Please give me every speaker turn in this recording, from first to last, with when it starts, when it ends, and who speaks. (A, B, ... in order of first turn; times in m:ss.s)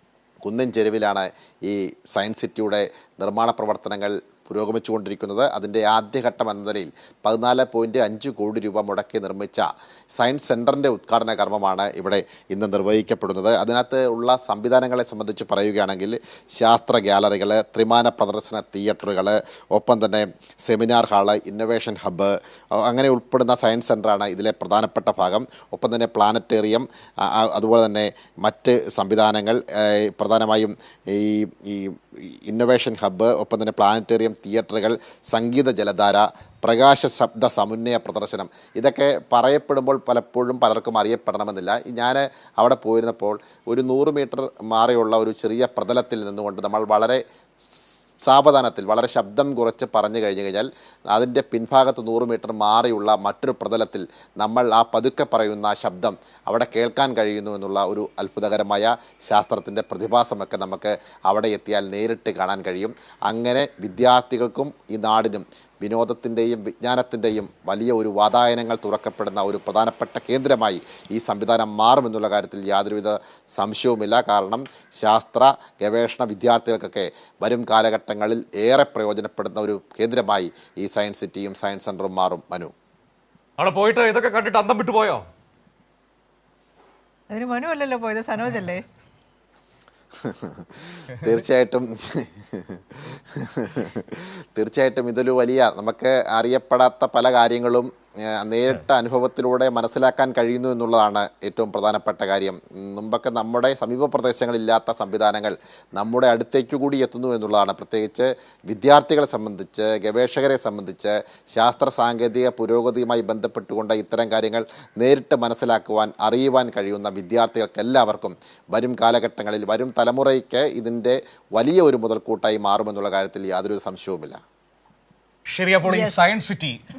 0:00.4-1:22.7 A
1:23.6-1:25.2 B
1:27.3-1:28.8 C
1:30.2-2:04.4 A
2:05.5-2:06.8 B
2:05.8-2:06.3 C